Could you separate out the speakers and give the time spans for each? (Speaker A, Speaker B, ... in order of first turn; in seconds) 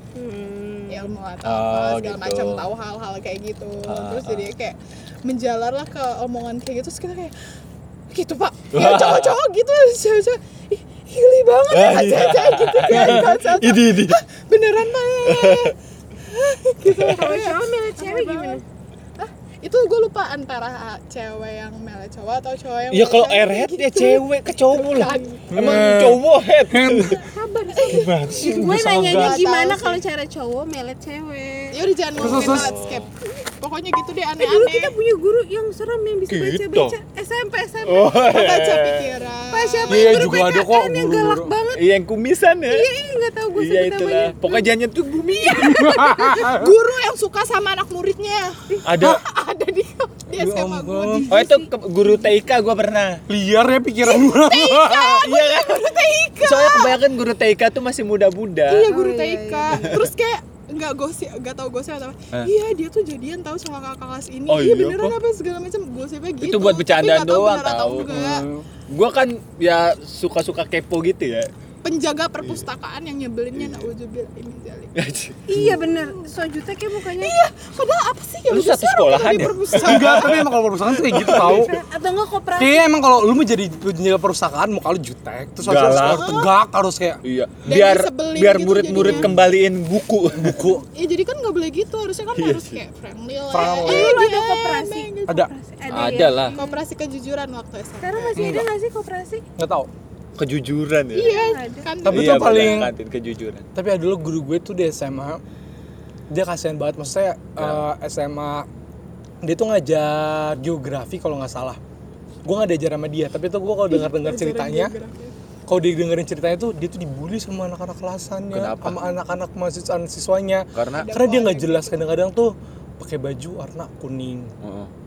Speaker A: 0.1-1.1, 17.1-18.6, 27.2-31.8, 34.4-38.1, 39.5-41.9, 42.7-44.7, 51.3-51.7, 58.9-60.0, 75.5-77.3, 81.3-82.9, 93.6-96.8, 98.0-99.4, 101.2-101.9
Speaker B: 0.9-7.3, 8.1-15.8, 16.3-18.6, 19.2-25.6, 27.7-28.3, 29.1-30.0, 31.7-34.9, 38.2-40.4, 45.5-51.5, 54.0-57.0, 58.7-68.5, 71.8-74.9, 75.7-76.3, 77.1-80.5, 85.7-86.5, 87.7-89.3, 90.9-95.1, 96.5-98.4, 101.1-102.9, 113.9-115.3, 121.0-122.0
Speaker C: 1.4-2.7, 3.9-4.5, 8.7-9.3, 11.7-14.2, 15.3-15.7, 22.9-27.2, 27.9-29.3, 32.2-33.1, 36.3-37.0, 37.9-39.1, 41.7-42.9, 43.5-46.1, 48.8-49.2, 51.3-53.2, 55.2-58.9, 59.8-60.1, 64.5-65.2, 66.4-68.3, 68.9-71.5, 73.5-73.9, 75.0-75.8, 78.5-80.5, 81.0-81.7, 85.6-86.4, 87.2-90.6, 92.4-92.8, 95.9-96.6, 100.4-101.4, 102.1-103.7, 107.6-107.8, 118.5-119.0, 120.7-121.1, 124.6-124.9
Speaker D: 12.9-13.2, 25.5-27.2, 28.4-29.4, 32.2-32.7, 39.9-41.5, 45.6-46.7, 50.3-51.3, 53.3-55.3, 68.1-68.7, 79.8-81.7, 82.6-87.2, 88.9-89.3, 90.4-90.8, 93.5-94.2, 98.3-98.7, 99.6-99.9, 102.0-102.9, 103.8-105.4, 106.3-108.7, 109.4-111.8, 112.5-114.9, 115.7-124.5